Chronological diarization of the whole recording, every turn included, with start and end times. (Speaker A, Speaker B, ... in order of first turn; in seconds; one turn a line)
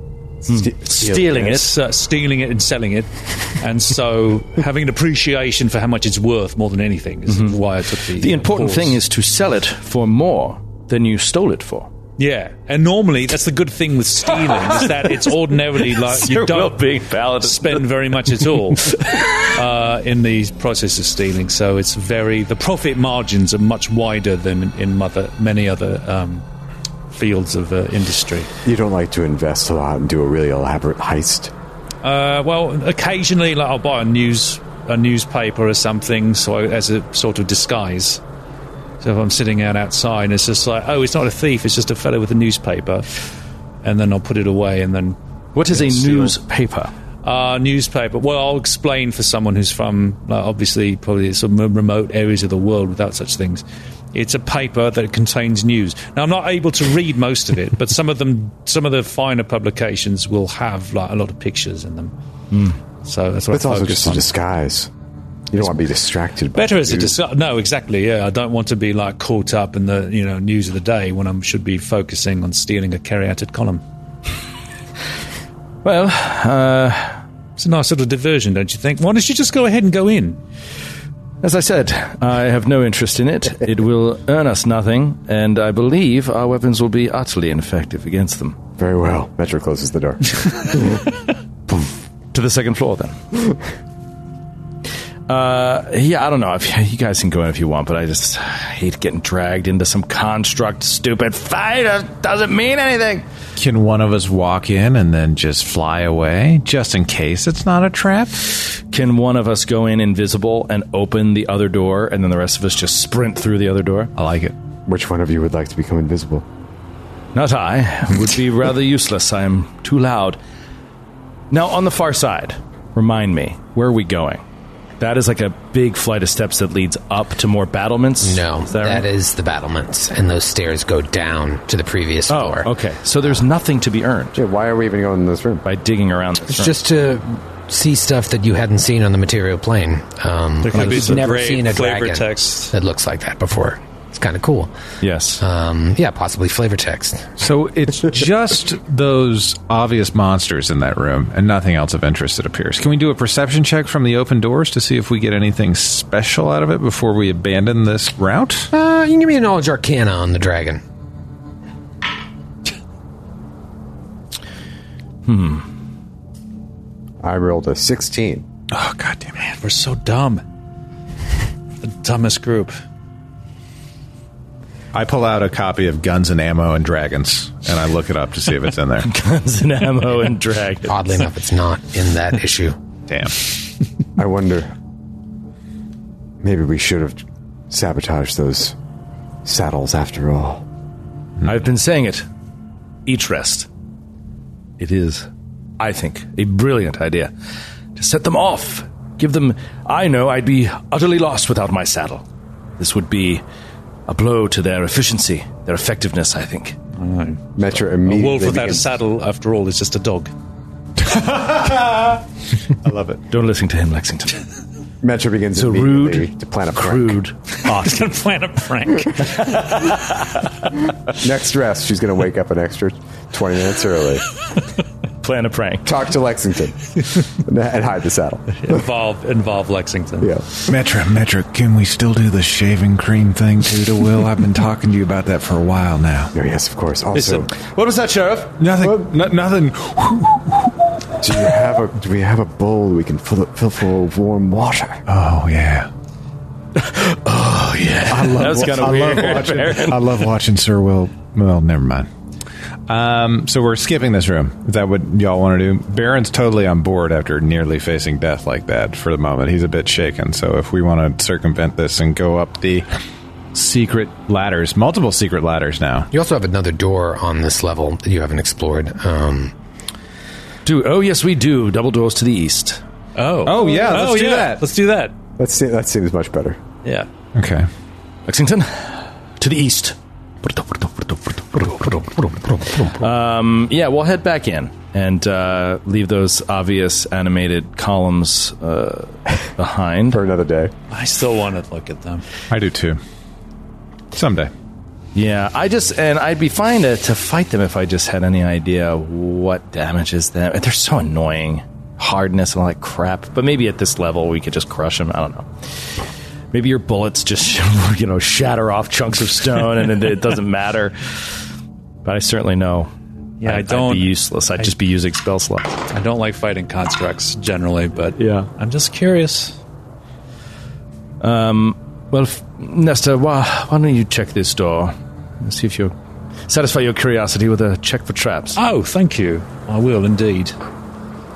Speaker A: 0.4-1.7
Speaker B: 0.5-1.7
Speaker C: 1.4-9.0
Speaker B: 7.3-11.9
Speaker C: 12.2-26.4
Speaker B: 14.5-19.4
Speaker C: 27.1-28.5
Speaker A: 28.6-31.5
Speaker C: 32.0-38.2
Speaker C: 39.0-43.1
Speaker C: 43.8-46.4
Speaker B: 45.5-46.9
Speaker C: 47.2-62.1
Speaker B: 62.5-62.8
Speaker C: 63.0-64.3
Speaker A: 63.5-64.9
Speaker A: 65.5-67.2
Speaker C: 66.5-73.8
Speaker B: 75.8-77.2
Speaker C: 77.6-80.4
Speaker B: 81.4-88.6
Speaker A: 88.8-90.8
Speaker B: 91.8-93.2
Speaker B: 95.3-103.2
Speaker D: 103.5-108.4
Speaker B: 108.8-114.1
Speaker D: 114.1-114.5
Speaker A: 114.9-116.4
Speaker B: 117.3-120.4
Speaker B: 121.5-124.4
Speaker B: 125.0-129.0
Speaker E: 128.2-132.7
Speaker B: 132.3-134.4
Speaker A: 134.3-135.6
Speaker B: 135.6-136.8
Speaker E: 136.5-144.7
Speaker C: 140.6-142.7
Speaker B: 145.0-145.4
Speaker E: 145.4-147.3
Speaker D: 147.4-158.7
Speaker E: 158.7-160.8
Speaker B: 165.2-165.7
Speaker A: 167.2-168.4
Speaker D: 168.7-169.4
Speaker C: 169.4-170.4
Speaker C: 171.8-172.7
Speaker D: 174.9-179.1
Speaker B: 179.0-181.0
Speaker E: 180.9-182.8
Speaker D: 183.1-183.5
Speaker A: 184.2-184.7
Speaker A: 186.4-188.7
Speaker A: 189.4-190.6
Speaker B: 191.4-192.3
Speaker B: 193.1-193.7
Speaker B: 194.8-195.3
Speaker B: 195.8-197.3
Speaker B: 197.9-202.2
Speaker B: 202.8-203.4
Speaker B: 204.1-206.8
Speaker C: 206.9-207.4
Speaker A: 207.6-208.9
Speaker C: 208.0-210.3
Speaker D: 211.0-212.2
Speaker D: 212.8-213.2
Speaker B: 213.3-214.4
Speaker A: 215.0-217.2
Speaker B: 215.5-218.1
Speaker C: 217.6-219.6
Speaker B: 219.2-220.3
Speaker A: 221.1-224.2
Speaker B: 225.2-225.8
Speaker A: 225.8-228.8
Speaker C: 228.6-230.3
Speaker A: 230.2-230.4
Speaker D: 230.7-236.3
Speaker A: 236.3-237.5
Speaker B: 237.1-238.6
Speaker D: 238.6-240.8
Speaker A: 238.7-239.0
Speaker A: 241.2-245.0
Speaker D: 245.1-245.9
Speaker B: 246.8-250.2
Speaker A: 248.1-249.7
Speaker D: 248.1-252.1
Speaker D: 252.9-262.9
Speaker D: 263.5-266.1
Speaker E: 266.1-269.5
Speaker B: 270.6-272.8
Speaker C: 273.1-275.1
Speaker D: 273.4-274.6
Speaker A: 275.4-276.6
Speaker D: 277.3-277.7
Speaker B: 278.3-290.2
Speaker A: 290.1-290.7
Speaker C: 290.9-292.2
Speaker D: 292.5-293.0
Speaker D: 294.1-294.5
Speaker B: 295.1-305.5
Speaker B: 306.5-311.2
Speaker B: 312.0-312.9
Speaker C: 313.4-314.7
Speaker B: 313.4-315.8
Speaker C: 315.9-319.6
Speaker B: 318.2-318.5
Speaker B: 321.2-325.9
Speaker B: 326.5-328.6
Speaker C: 328.5-330.6